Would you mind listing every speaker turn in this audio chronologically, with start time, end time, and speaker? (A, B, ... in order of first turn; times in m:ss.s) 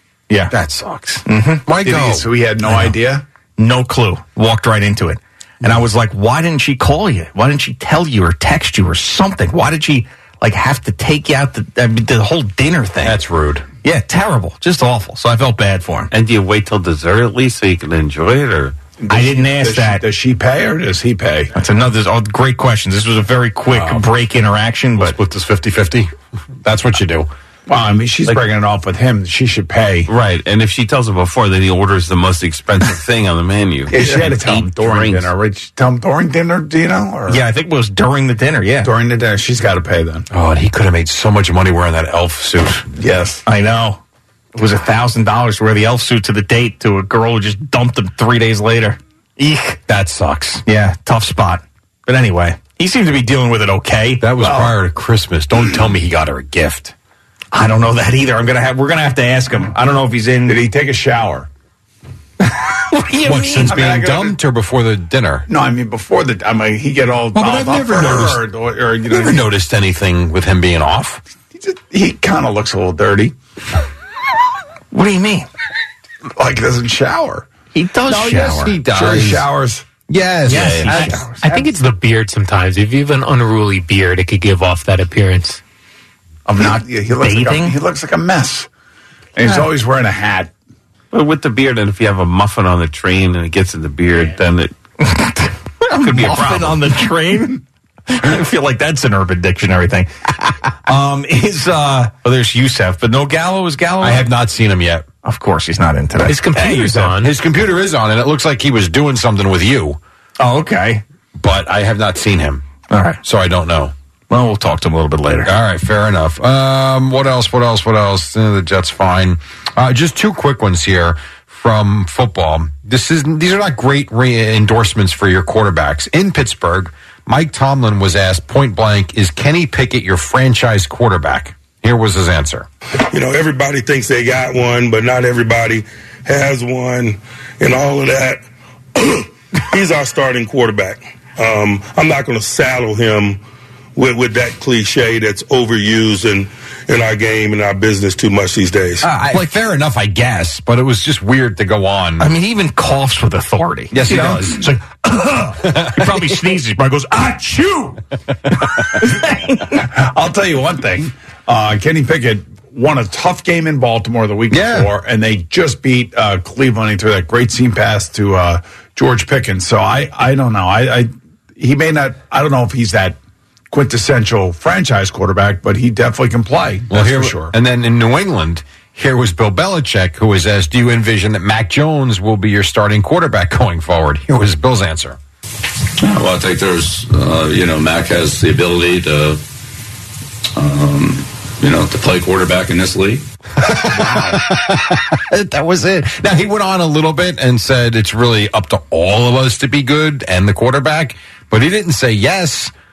0:00.5-0:02.3 A
0:01.2-0:01.6 B
0:01.8-0:03.2 C
0:03.6-0:13.2 B
0:13.0-0:13.6 A
0:13.8-0:16.1 B
0:16.1-0:18.8 D
0:19.0-0:21.5 C
0:19.1-0:20.0 B
0:21.5-0:25.2 B
0:23.7-0:24.0 A
0:25.0-0:26.1 A
0:26.6-0:27.3 A
0:27.7-0:30.1 C
0:30.1-0:35.3 D
0:33.9-0:37.4 C
0:37.3-0:38.9 B
0:38.8-0:40.2 C
0:40.3-0:42.9 A
0:43.0-0:43.4 C
0:43.4-0:44.0 B
0:44.5-0:49.8 B
0:49.9-0:50.6 A
0:50.6-0:54.3 B
0:54.2-0:56.9 A
0:54.4-0:54.7 C
0:57.5-1:00.6 B
1:00.5-1:01.5 C
1:02.9-1:03.8 B
1:03.2-1:05.5 A
1:03.6-1:04.4 C
1:05.5-1:09.4 C
1:07.3-1:08.4 A
1:09.1-1:11.2 A
1:11.5-1:13.3 C
1:14.9-1:15.5 B
1:16.3-1:17.5 C
1:17.7-1:18.8 B
1:18.1-1:19.4 A
1:18.8-1:19.8 C
1:20.1-1:21.3 A
1:20.5-1:21.5 B
1:20.5-1:20.8 D
1:20.7-1:25.6 E
1:26.4-1:28.7 C
1:27.2-1:27.8 B
1:29.4-1:30.5 C
1:31.1-1:34.7 D
1:35.0-1:44.3 B
1:36.0-1:36.8 D
1:44.0-1:45.1 A
1:45.2-1:47.1 B
1:46.2-1:47.3 E
1:47.2-1:50.0 A
1:50.4-1:51.0 B
1:51.4-1:52.6 A
1:52.9-1:53.2 B
1:53.2-1:53.9 A
1:54.3-1:55.5 B
1:55.4-2:12.7 A
2:13.1-2:18.4 F
2:19.0-2:23.4 F
2:24.0-2:29.1 F
2:29.0-2:32.3 A
2:32.2-2:38.0 B
2:33.9-2:34.7 A
2:35.6-2:36.3 A
2:38.7-2:39.8 B
2:39.7-2:53.2 C
2:44.5-2:44.9 A
2:53.7-2:57.5 C
2:56.9-3:05.2 A
3:06.0-3:09.4 G
3:10.6-3:13.2 G
3:13.6-3:22.7 A